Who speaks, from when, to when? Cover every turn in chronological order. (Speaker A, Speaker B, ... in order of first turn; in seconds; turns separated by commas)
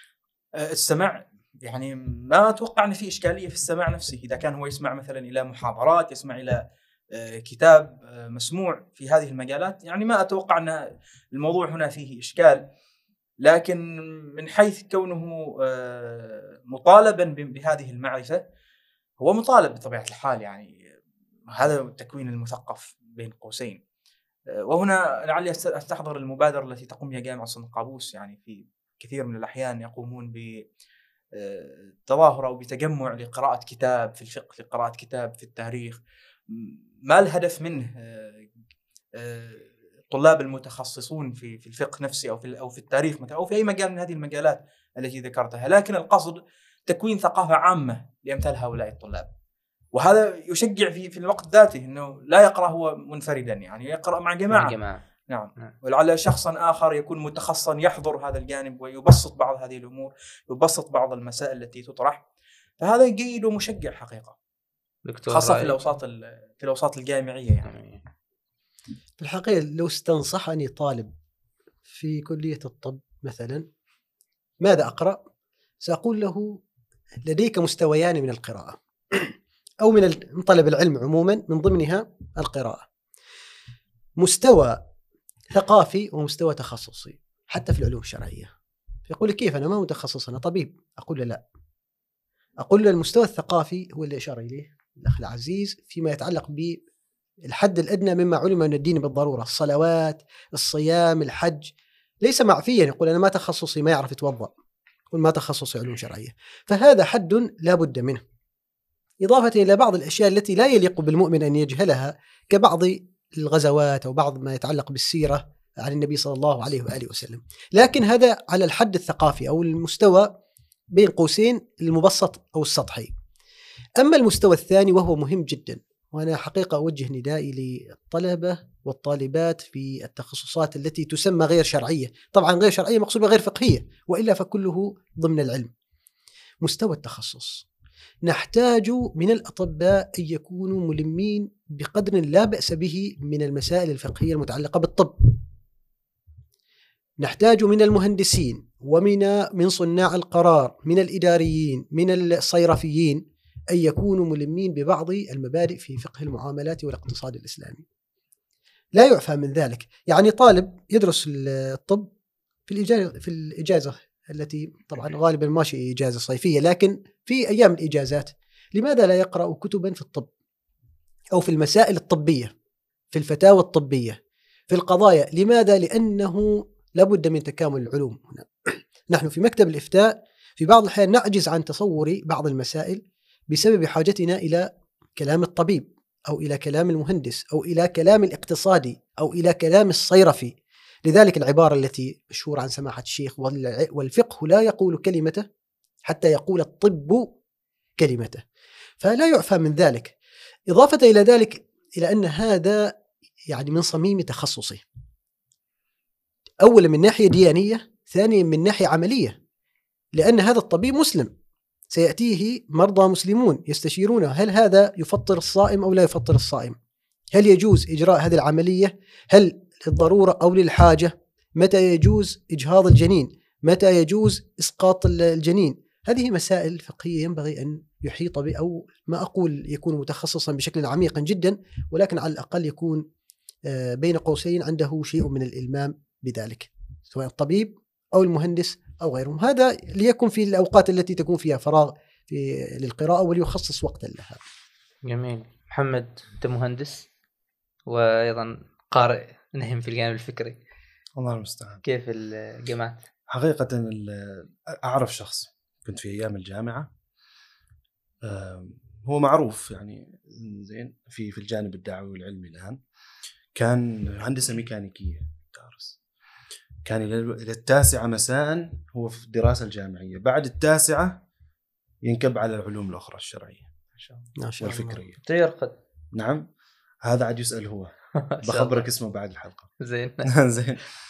Speaker A: 0.6-6.6, Speaker A: 7.1-12.7, Speaker A: 13.4-18.4, Speaker A: 19.2-20.8, Speaker A: 21.5-23.8, Speaker A: 24.6-30.6, Speaker A: 31.4-38.5, Speaker A: 39.1-49.3, Speaker A: 49.9-54.8, Speaker B: 54.5-55.0, Speaker A: 55.3-62.2, Speaker A: 62.8-64.4, Speaker B: 65.0-65.7, Speaker A: 65.3-67.7, Speaker B: 67.7-68.0, Speaker C: 69.2-71.1, Speaker C: 71.9-73.7, Speaker C: 74.6-75.2, Speaker C: 75.8-76.6, Speaker C: 77.2-82.8, Speaker C: 84.2-84.8, Speaker C: 85.5-88.5, Speaker C: 89.1-91.4, Speaker C: 92.6-96.8, Speaker C: 97.5-104.5, Speaker C: 105.1-108.2, Speaker C: 109.2-120.3, Speaker C: 120.9-123.1, Speaker C: 124.0-135.7, Speaker C: 136.6-137.7, Speaker C: 138.2-145.3, Speaker C: 147.2-157.8, Speaker C: 158.9-162.1, Speaker C: 162.7-170.3, Speaker C: 171.3-172.5, Speaker C: 173.1-174.2, Speaker C: 174.7-195.5, Speaker C: 196.1-197.3, Speaker C: 198.0-198.4, Speaker C: 199.0-200.2, Speaker C: 200.7-203.0, Speaker C: 203.5-204.8, Speaker C: 206.6-209.4, Speaker C: 210.1-211.3, Speaker C: 211.9-216.8, Speaker C: 217.3-233.1, Speaker C: 233.7-244.4, Speaker B: 245.1-247.1, Speaker B: 247.9-250.6, Speaker D: 251.2-251.8, Speaker B: 251.8-253.0, Speaker D: 253.3-256.9, Speaker D: 258.2-262.8, Speaker D: 263.6-265.9, Speaker D: 266.9-271.2, Speaker D: 272.0-273.7, Speaker C: 274.4-275.0, Speaker D: 274.6-275.2, Speaker B: 275.2-275.8, Speaker D: 276.1-276.5, Speaker D: 277.0-277.9, Speaker B: 278.2-278.9, Speaker D: 278.4-279.7, Speaker B: 279.8-280.3, Speaker D: 280.2-280.9